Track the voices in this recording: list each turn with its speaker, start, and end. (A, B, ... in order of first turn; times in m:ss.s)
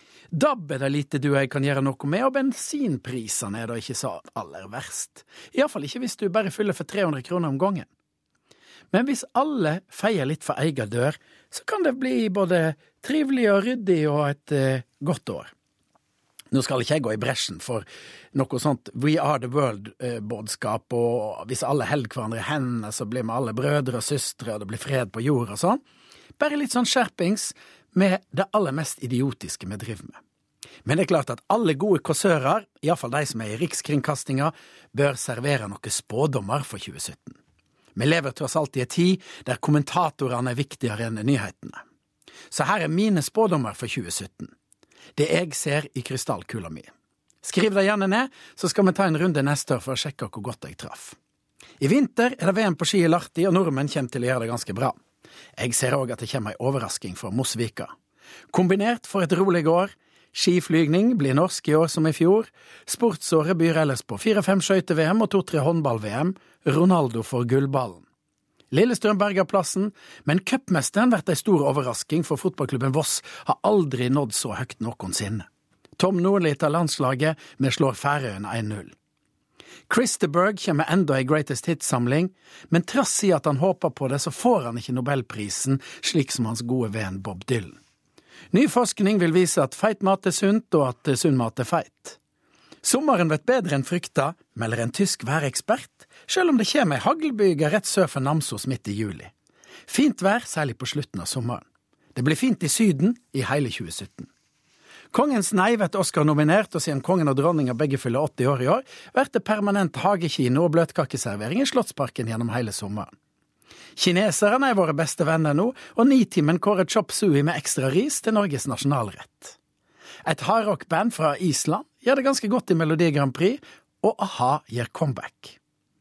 0:00.3-0:07.9 A
0:08.9-0:15.5 A
0:16.5-0:25.8 A
0:26.4-0:30.2 A
0:30.8-0:37.4 A
0:38.0-0:41.8 A
0:42.5-0:44.5 A
0:45.2-0:46.9 A
0:47.4-0:51.2 A
0:51.8-0:55.0 A
0:55.6-0:57.9 A
0:58.5-1:08.0 A
1:08.7-1:15.5 A
1:16.0-1:18.9 A
1:19.9-1:27.8 A
1:28.5-1:32.2 A
1:32.8-1:39.3 A
1:39.9-1:44.3 A
1:45.1-1:53.1 A
1:54.0-1:59.6 A
2:00.2-2:05.6 A